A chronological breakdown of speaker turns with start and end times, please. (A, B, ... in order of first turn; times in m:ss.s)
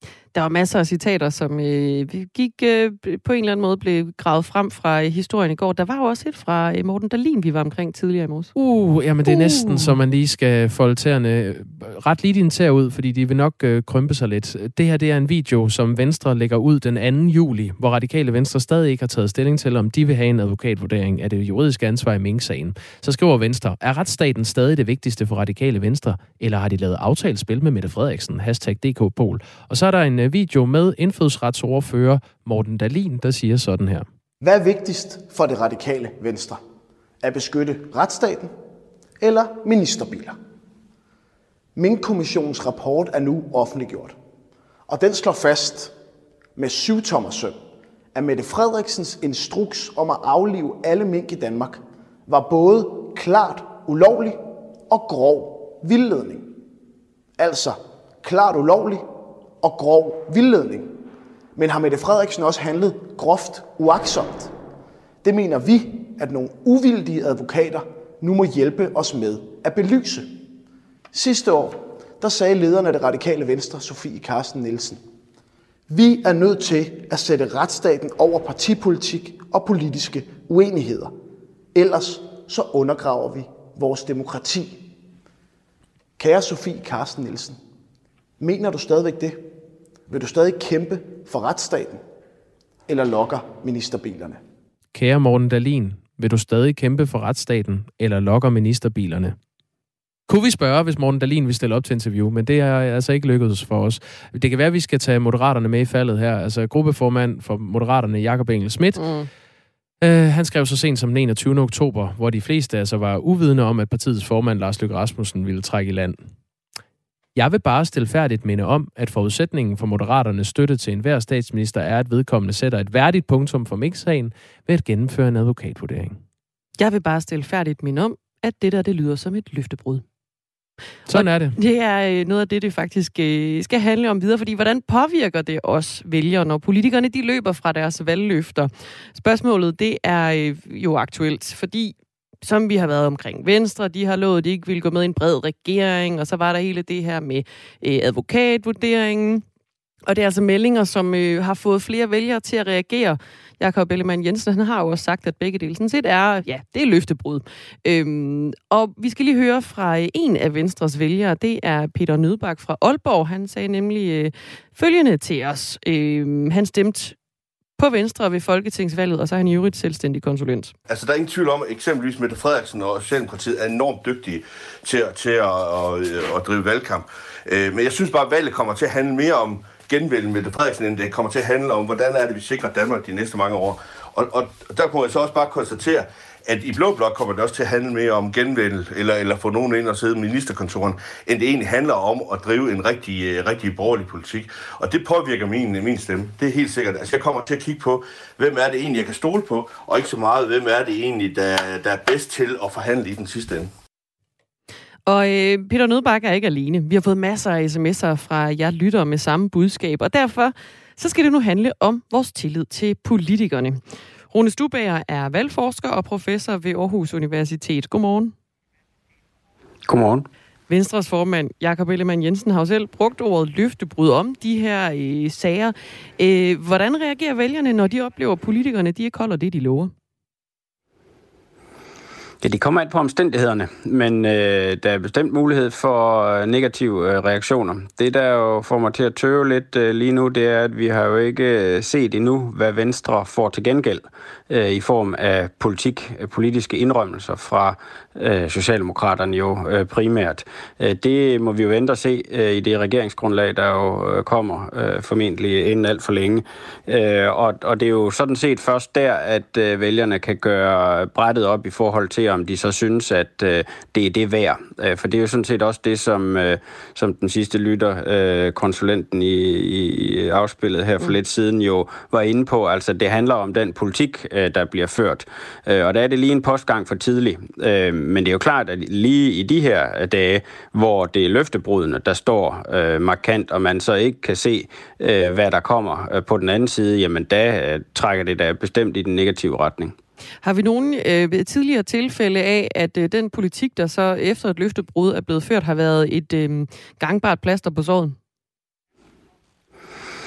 0:00.3-0:08.5 A
0:08.6-0:34.1 B
0:09.3-0:09.9 A
0:34.4-0:36.6 C
0:37.2-0:38.6 C
0:39.2-0:40.4 C
0:41.8-0:44.2 C
0:44.9-0:46.0 C
0:46.6-0:47.6 C
0:48.2-0:56.5 C
0:57.4-0:59.1 C
0:59.6-1:01.0 C
1:01.6-1:04.5 C
1:05.2-1:10.3 C
1:11.1-1:15.0 C
1:15.9-1:21.1 C
1:21.7-1:24.8 C
1:26.2-1:27.6 C
1:28.4-1:29.5 C
1:30.1-1:32.0 C
1:32.9-1:34.4 C
1:34.9-1:39.4 B
1:40.3-1:49.0 B
1:49.0-1:49.3 A
1:50.0-1:56.2 B
1:57.4-2:06.2 B
2:06.8-2:10.0 A
2:11.1-2:11.6 B
2:11.1-2:29.4 A
2:30.1-2:47.2 A
2:47.8-2:50.7 A
2:50.9-3:23.7 D
3:25.1-3:33.8 A
3:34.3-3:38.3 A
3:39.9-3:40.3 E
3:40.7-3:49.9 A
3:52.4-4:49.9 E
4:50.4-4:58.2 A